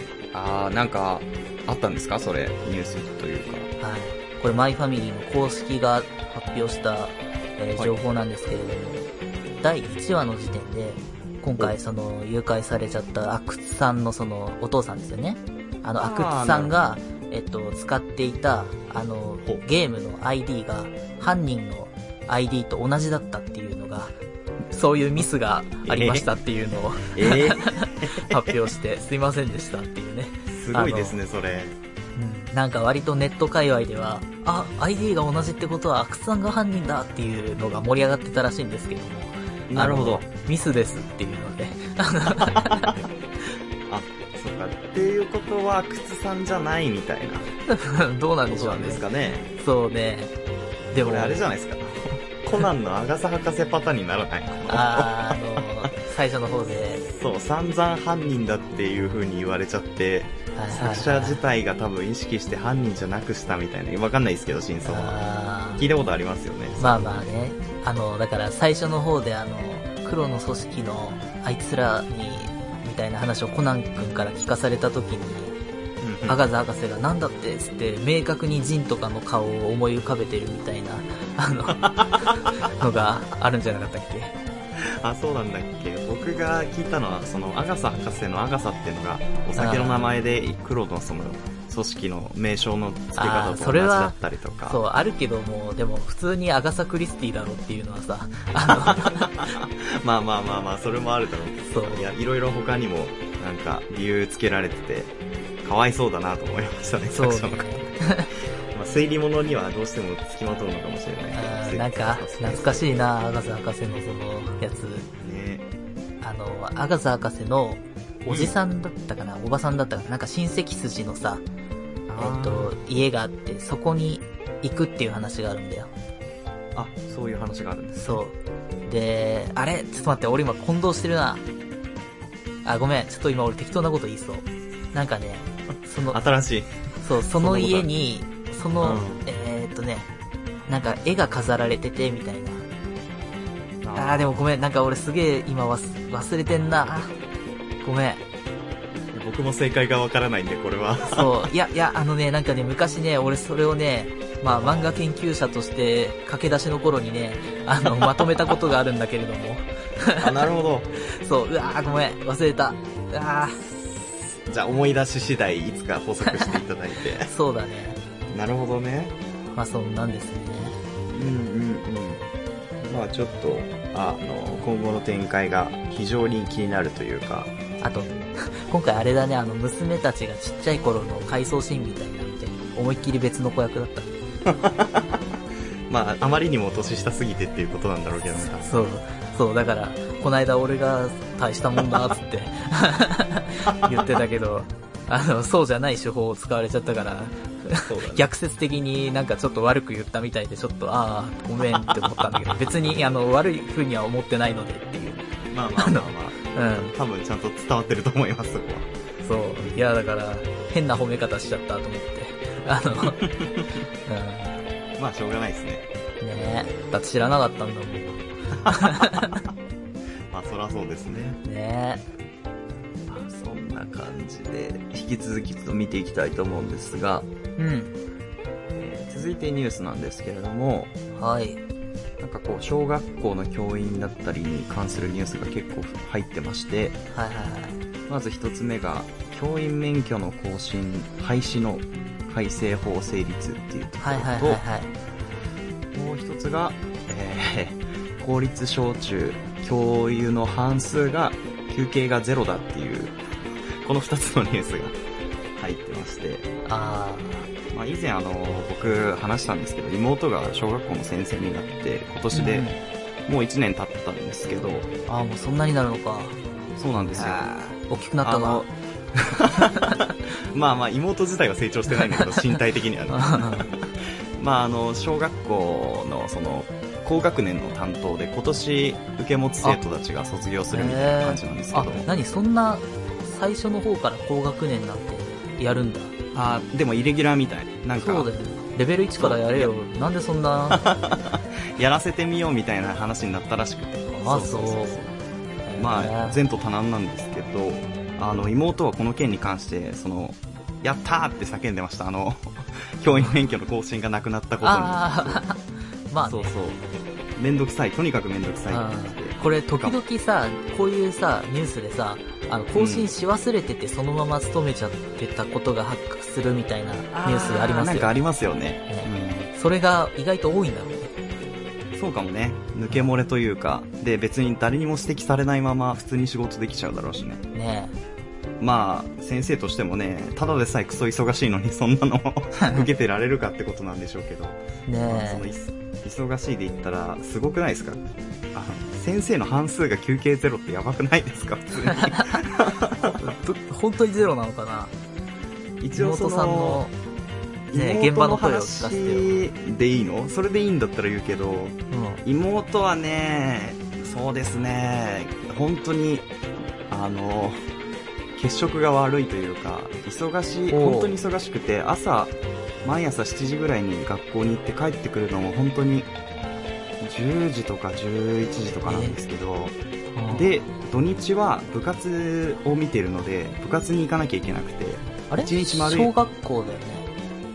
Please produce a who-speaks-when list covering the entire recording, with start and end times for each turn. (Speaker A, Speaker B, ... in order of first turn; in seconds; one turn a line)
Speaker A: 0.3-3.7
Speaker B: 3.8-24.1
Speaker A: 16.0-16.8
Speaker B: 24.7-31.2
Speaker A: 25.8-26.3
Speaker A: 27.1-28.4
Speaker A: 30.5-31.8
Speaker B: 32.1-43.1
Speaker A: 39.7-40.2
Speaker A: 43.9-47.5
Speaker B: 47.7-49.0
Speaker A: 48.5-49.5
Speaker B: 49.6-50.3
Speaker B: 50.9-51.5
Speaker A: 51.0-55.9
Speaker B: 54.6-57.0
Speaker A: 56.9-65.2
Speaker B: 60.5-61.4
Speaker B: 64.8-65.8
Speaker A: 65.8-67.3
Speaker B: 66.8-75.5
Speaker A: 76.0-76.4
Speaker B: 76.2-84.3
Speaker A: 81.8-82.1
Speaker A: 85.0-94.8
Speaker B: 89.5-90.1
Speaker B: 93.2-99.4
Speaker A: 98.8-107.7
Speaker B: 101.7-102.1
Speaker B: 107.1-108.3
Speaker A: 108.7-112.8
Speaker B: 111.3-115.1
Speaker A: 115.2-115.7
Speaker B: 116.2-121.4
Speaker A: 118.3-118.5
Speaker A: 122.1-122.7
Speaker B: 122.2-125.9
Speaker A: 126.7-128.2
Speaker B: 128.0-128.3
Speaker B: 128.8-131.4
Speaker B: 132.6-136.2
Speaker A: 136.1-137.9
Speaker B: 137.0-140.1
Speaker A: 138.8-139.2
Speaker B: 140.7-142.6
Speaker A: 143.8-144.3
Speaker B: 143.9-147.2
Speaker B: 147.8-148.2
Speaker A: 149.1-151.4
Speaker B: 151.1-160.3
Speaker A: 154.6-154.9
Speaker A: 158.0-158.5
Speaker A: 160.2-160.9
Speaker B: 161.1-163.7
Speaker A: 164.5-167.3
Speaker B: 166.3-166.6
Speaker B: 167.2-168.0
Speaker A: 168.3-169.1
Speaker B: 169.5-170.8
Speaker A: 171.1-172.2
Speaker A: 172.8-177.6
Speaker B: 177.8-184.1
Speaker A: 184.4-185.2
Speaker A: 185.9-188.9
Speaker B: 188.4-206.9
Speaker A: 191.8-192.1
Speaker A: 193.7-194.0
Speaker A: 197.8-198.3
Speaker A: 201.7-202.1
Speaker A: 205.5-208.9
Speaker B: 209.2-213.2
Speaker A: 209.6-209.8
Speaker A: 212.9-213.6
Speaker B: 214.1-214.6
Speaker A: 215.0-215.9
Speaker B: 216.2-219.4
Speaker A: 220.3-221.4
Speaker B: 221.4-222.0
Speaker A: 223.1-227.3
Speaker B: 227.6-227.9
Speaker A: 228.7-230.9
Speaker B: 231.1-231.6
Speaker A: 232.2-237.0
Speaker B: 237.1-237.8
Speaker A: 238.1-244.6
Speaker B: 244.0-244.9
Speaker A: 245.9-253.2
Speaker A: 253.8-255.0
Speaker A: 255.6-256.5
Speaker B: 256.6-257.5
Speaker A: 257.7-262.7
Speaker B: 262.3-262.8
Speaker A: 263.3-264.9
Speaker B: 265.1-266.4
Speaker A: 266.8-267.5
Speaker B: 267.1-268.6
Speaker A: 268.2-269.9
Speaker A: 270.5-282.1
Speaker B: 273.1-273.7
Speaker B: 280.7-286.1
Speaker A: 286.3-288.3
Speaker B: 287.9-290.8
Speaker A: 289.2-289.7
Speaker A: 290.7-295.1
Speaker B: 294.1-295.0
Speaker B: 295.6-296.4
Speaker A: 295.8-305.4
Speaker B: 303.1-303.3
Speaker B: 304.6-306.5
Speaker A: 306.2-306.8
Speaker A: 307.4-310.0
Speaker B: 308.7-318.1
Speaker A: 312.7-313.1
Speaker A: 317.1-319.5
Speaker B: 318.9-321.1
Speaker A: 321.9-327.4
Speaker B: 327.5-327.9
Speaker A: 328.6-338.0
Speaker B: 334.9-335.5
Speaker A: 338.5-343.2
Speaker B: 341.9-342.4
Speaker B: 343.1-344.9
Speaker A: 345.8-346.8
Speaker B: 345.9-346.9
Speaker A: 347.7-356.3
Speaker B: 347.7-349.4
Speaker B: 351.9-352.2
Speaker A: 356.9-357.6
Speaker A: 358.4-366.1
Speaker B: 360.7-361.2
Speaker A: 367.0-369.8
Speaker B: 368.9-369.2
Speaker B: 370.1-370.5
Speaker A: 370.3-376.1
Speaker B: 375.3-377.1